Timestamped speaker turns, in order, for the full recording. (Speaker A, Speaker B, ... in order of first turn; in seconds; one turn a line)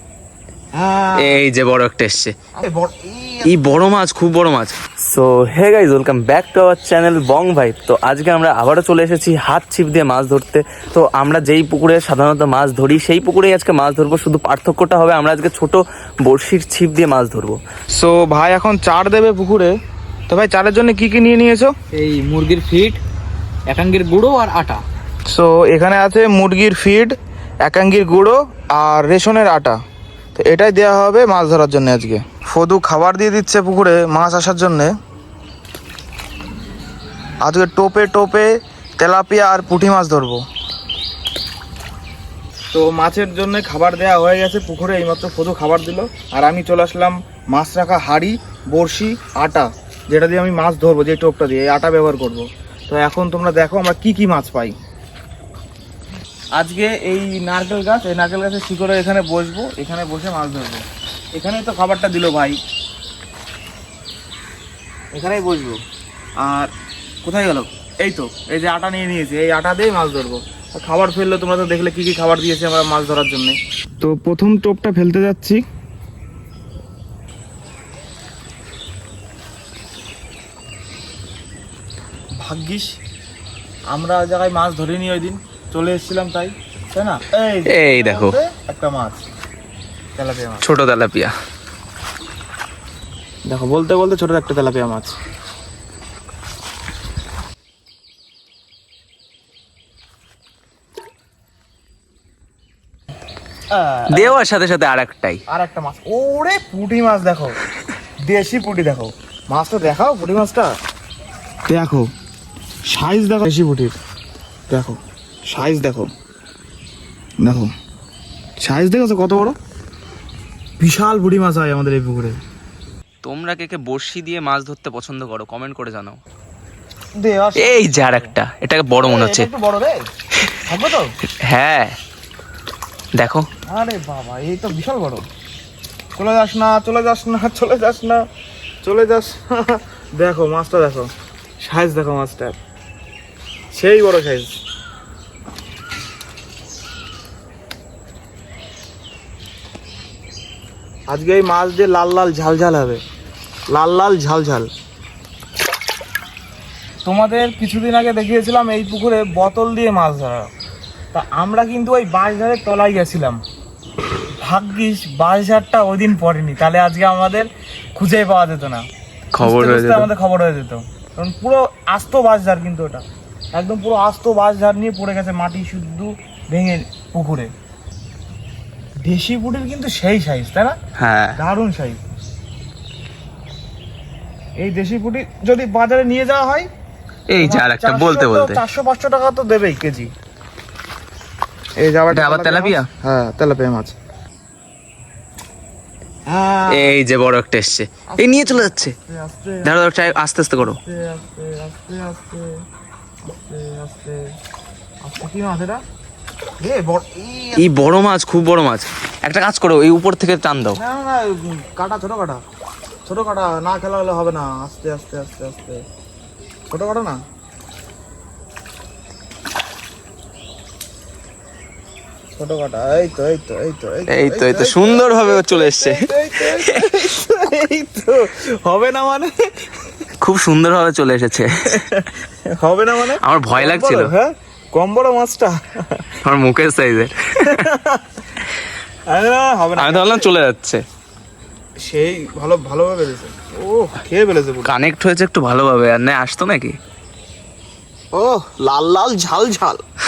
Speaker A: 0.7-1.4
Speaker B: 1.2-2.3
Speaker A: 2.5-3.9
Speaker B: 3.4-17.6
Speaker A: 17.9-19.7
Speaker A: 20.3-21.9
Speaker C: 21.9-23.0
Speaker C: 23.7-24.8
Speaker A: 25.3-29.8
Speaker A: 30.3-34.9
Speaker A: 37.4-40.4
Speaker A: 42.7-54.7
Speaker A: 56.5-62.6
Speaker A: 65.1-65.8
Speaker A: 66.4-66.7
Speaker A: 67.2-75.6
Speaker A: 82.4-83.0
Speaker A: 83.9-89.2
Speaker B: 87.7-88.4
Speaker A: 90.2-90.7
Speaker B: 90.6-91.3
Speaker A: 93.5-95.1
Speaker A: 103.7-104.4
Speaker B: 104.1-105.4
Speaker A: 105.5-107.6
Speaker A: 108.2-110.7
Speaker A: 111.7-112.1
Speaker A: 112.8-114.0
Speaker A: 114.7-116.1
Speaker A: 117.4-117.7
Speaker A: 118.6-119.5
Speaker A: 120.8-122.4
Speaker B: 123.2-126.2
Speaker A: 127.2-128.3
Speaker B: 127.6-129.5
Speaker A: 129.0-130.1
Speaker A: 130.6-131.1
Speaker B: 131.5-131.9
Speaker B: 133.2-133.4
Speaker A: 133.7-135.2
Speaker A: 136.2-138.2
Speaker A: 138.8-142.6
Speaker A: 143.7-144.6
Speaker A: 151.1-153.0
Speaker A: 153.7-154.7
Speaker A: 157.0-160.5
Speaker A: 161.1-163.4
Speaker A: 164.4-168.9
Speaker B: 169.3-170.1
Speaker A: 169.4-177.5
Speaker A: 179.0-180.8
Speaker B: 181.0-181.3
Speaker A: 181.3-182.0
Speaker A: 184.6-186.7
Speaker B: 187.3-188.6
Speaker A: 187.4-190.1
Speaker A: 191.8-193.9
Speaker B: 192.1-192.9
Speaker A: 196.3-196.9
Speaker B: 196.7-198.9
Speaker A: 198.1-202.6
Speaker B: 199.6-200.8
Speaker A: 203.3-204.2
Speaker A: 205.0-205.8
Speaker A: 206.6-208.0
Speaker B: 207.6-210.8
Speaker A: 210.8-212.4
Speaker A: 213.0-215.8
Speaker A: 216.7-217.2
Speaker A: 222.4-229.3
Speaker B: 224.1-227.1
Speaker B: 230.2-231.9
Speaker A: 231.6-236.1
Speaker B: 233.2-234.1
Speaker B: 236.2-237.6
Speaker A: 237.4-238.2
Speaker A: 239.1-240.3
Speaker B: 239.8-240.8
Speaker A: 241.8-244.7
Speaker B: 244.6-246.8
Speaker A: 248.1-249.8